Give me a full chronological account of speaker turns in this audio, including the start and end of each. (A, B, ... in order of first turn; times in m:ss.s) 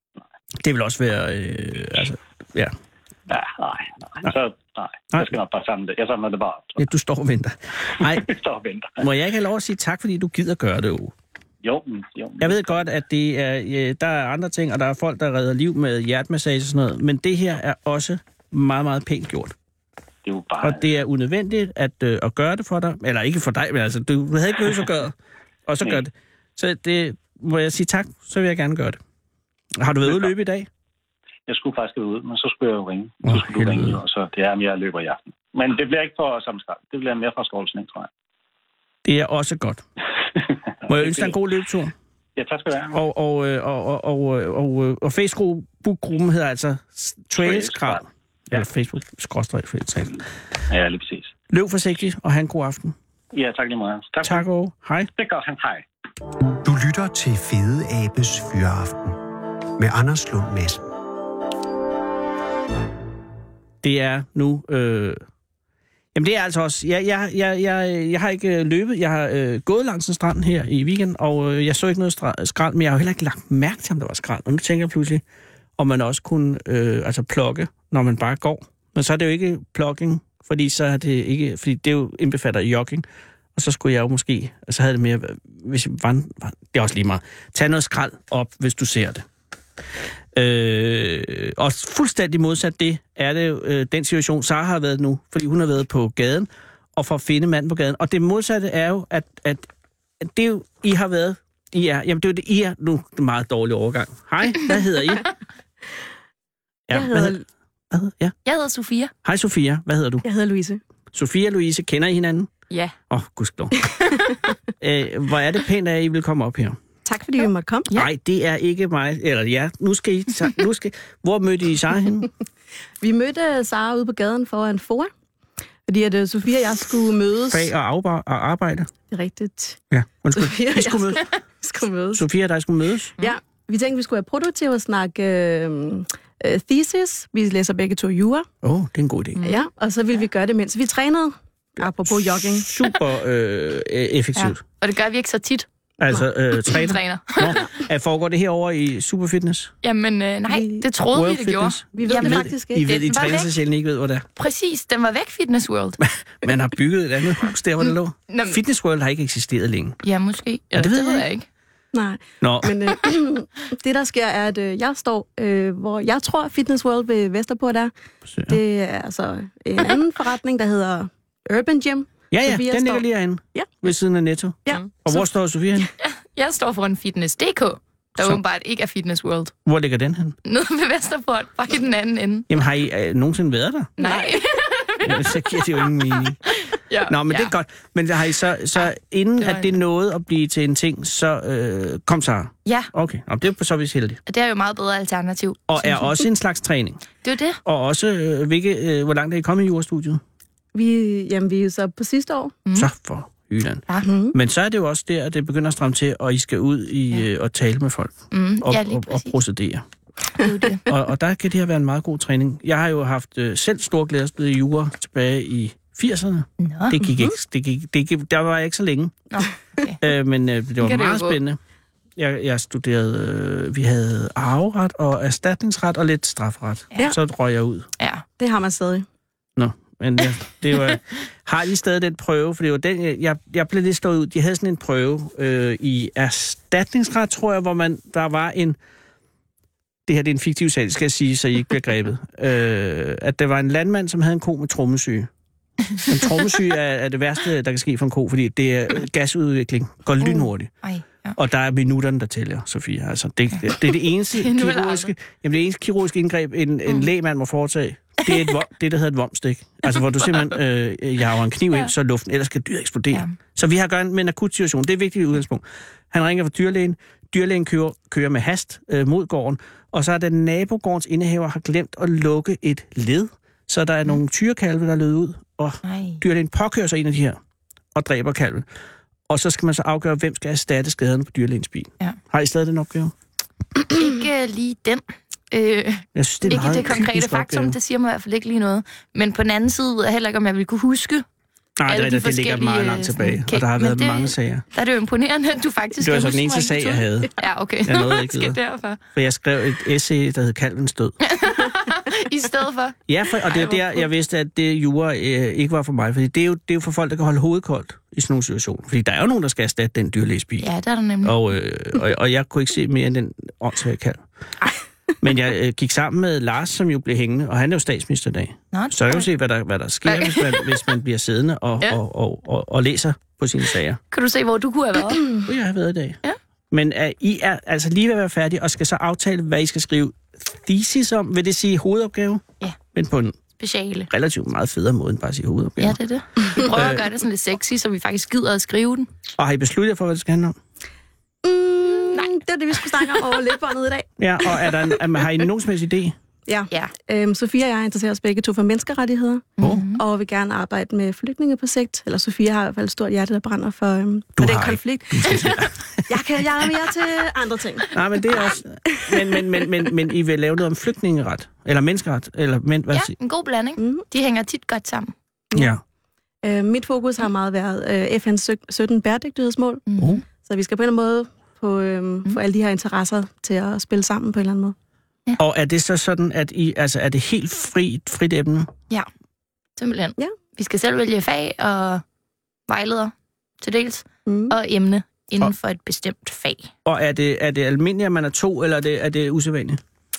0:00.6-0:02.7 A
0:03.3-0:06.8 B
0:06.8-0:08.3 A
0:08.0-0:09.1 B
0:09.0-0:11.1 A
0:11.6-0:12.9 B
0:12.4-0:19.5 A
0:20.2-0:20.8 B
0:20.6-0:25.1 A
0:25.6-0:29.0 A
0:29.8-0:30.7 A
0:30.0-0:30.3 B
0:31.5-0:38.1 B
0:33.2-0:34.0 A
0:39.0-0:39.8 A
0:40.4-0:41.4 B
0:40.9-0:41.9 A
0:42.4-0:43.0 B
0:42.9-0:50.2 A
0:47.4-0:48.7 B
0:50.7-0:51.3 B
0:51.5-0:52.9 A
0:53.3-0:54.4 B
0:54.2-0:55.1 A
0:55.2-0:55.8 B
0:56.6-0:59.2 C
0:59.8-1:00.9 C
1:03.8-1:05.2 A
1:06.1-1:15.2 A
1:15.8-1:23.0 A
1:23.6-1:29.2 A
1:30.3-1:39.7 A
1:40.2-1:45.2 A
1:46.9-1:47.3 A
1:46.9-1:47.4 D
1:47.9-1:48.3 A
1:48.4-1:49.1 E
1:49.2-1:50.2 A
1:50.2-1:50.8 D
1:51.1-1:52.5 A
1:52.7-1:52.9 E
1:53.1-1:53.8 A
1:54.8-1:56.8 A
1:57.0-1:57.9 D
1:57.9-2:02.3 A
2:03.0-2:05.1 D
2:05.9-2:07.7 D
2:07.5-2:08.9 A
2:09.1-2:09.8 D
2:09.9-2:11.3 A
2:10.3-2:12.2 D
2:12.1-2:13.1 A
2:13.2-2:18.5 D
2:18.6-2:19.4 A
2:19.4-2:22.7 D
2:22.2-2:24.6 A
2:24.3-2:25.7 E
2:26.0-2:29.7 A
2:26.6-2:27.7 E
2:29.8-2:33.5 E
2:30.5-2:30.8 D
2:31.1-2:34.3 A
2:31.9-2:32.9 D
2:34.4-2:36.0 E
2:36.4-2:40.0 A
2:38.3-2:38.6 E
2:40.0-2:41.5 E
2:40.7-2:41.2 A
2:41.9-2:47.9 D
2:42.4-2:42.7 A
2:48.3-2:48.6 A
2:48.5-2:53.8 D
2:52.3-2:55.9 A
2:56.0-2:59.5 E
2:59.6-3:00.4 A
3:00.4-3:02.5 E
3:02.5-3:03.9 A
3:04.0-3:05.8 E
3:04.0-3:04.4 D
3:05.0-3:06.4 A
3:06.4-3:07.5 E
3:07.1-3:14.2 A
3:09.4-3:09.8 E
3:12.6-3:12.9 E
3:14.3-3:16.1 E
3:15.7-3:17.1 A
3:17.2-3:17.6 E
3:17.6-3:20.2 A
3:20.7-3:22.6 D
3:22.7-3:29.8 A
3:24.0-3:24.4 D
3:28.3-3:29.4 E
3:30.4-3:30.8 E
3:30.9-3:39.2 A
3:36.6-3:37.0 E
3:37.1-3:37.3 D
3:39.3-3:40.0 E
3:40.0-3:41.6 A
3:40.8-3:41.4 E
3:42.2-3:47.9 A
3:48.0-3:48.2 E
3:48.4-3:49.0 D
3:49.6-3:58.8 A
4:00.1-4:05.3 A
4:06.0-4:10.7 A
4:10.2-4:11.4 E
4:11.3-4:37.4 A
4:13.5-4:15.1 E
4:19.9-4:20.4 E
4:35.8-4:36.2 E
4:37.9-4:38.6 A
4:39.3-4:43.1 A
4:43.9-4:51.2 E
4:46.1-4:47.8 A
4:51.8-4:54.6 A
4:51.8-4:59.0 E
4:56.0-4:57.3 A
4:57.8-4:58.6 A
4:59.1-5:01.2 A
5:01.2-5:04.0 E
5:03.1-5:10.7 A
5:10.6-5:11.4 E
5:11.2-5:14.2 A
5:15.2-5:24.0 A
5:18.7-5:19.3 E
5:20.0-5:20.8 E
5:24.1-5:25.4 E
5:25.4-5:26.2 A
5:26.7-5:33.4 A
5:33.6-5:34.1 E
5:34.1-5:36.0 A
5:35.8-5:39.1 E
5:36.6-5:37.0 A
5:39.4-5:40.6 A
5:41.4-5:44.7 D
5:44.2-5:46.2 A
5:46.5-5:55.5 D
5:49.6-5:50.0 E
5:54.4-5:56.0 A
5:56.1-5:57.9 D
5:57.9-6:03.1 A
5:58.8-5:59.9 D
6:02.9-6:05.1 E
6:03.8-6:04.0 D
6:05.5-6:05.8 A
6:06.4-6:14.8 D
6:09.9-6:10.2 E
6:15.4-6:18.7 A
6:19.8-6:22.0 E
6:22.7-6:26.7 E
6:24.2-6:24.5 D
6:26.8-6:29.8 A